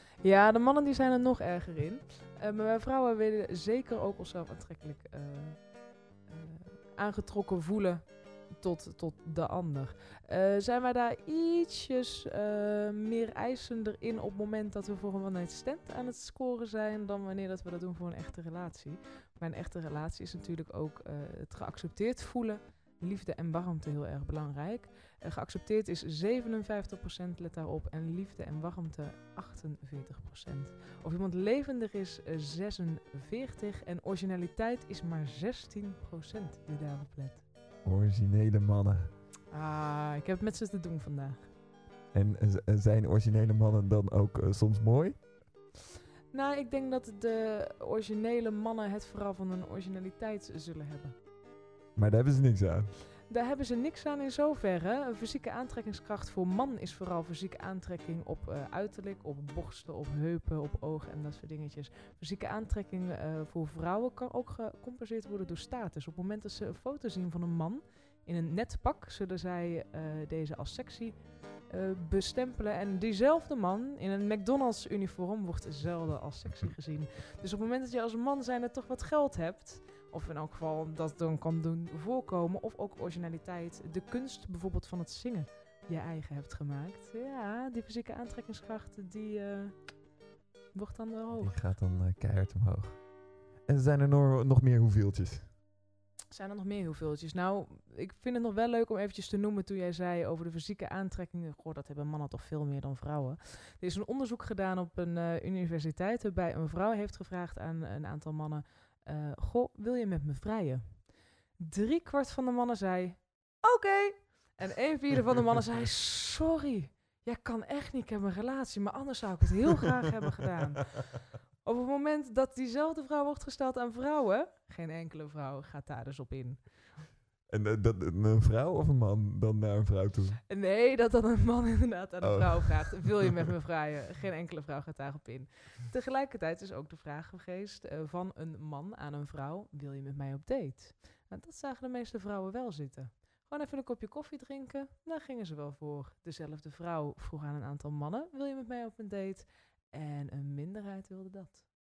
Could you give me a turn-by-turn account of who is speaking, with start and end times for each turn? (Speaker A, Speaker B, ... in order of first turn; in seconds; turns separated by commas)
Speaker A: 0.2-37.5, Speaker B: 37.8-39.1, Speaker A: 39.5-41.5, Speaker B: 42.1-45.3, Speaker A: 46.3-51.1, Speaker B: 52.0-52.9, Speaker A: 53.3-90.0, Speaker A: 90.7-91.5, Speaker B: 91.4-93.1, Speaker B: 93.6-95.5, Speaker A: 96.3-121.1, Speaker A: 121.6-126.8, Speaker B: 127.5-130.4, Speaker A: 130.5-151.6, Speaker B: 132.2-133.1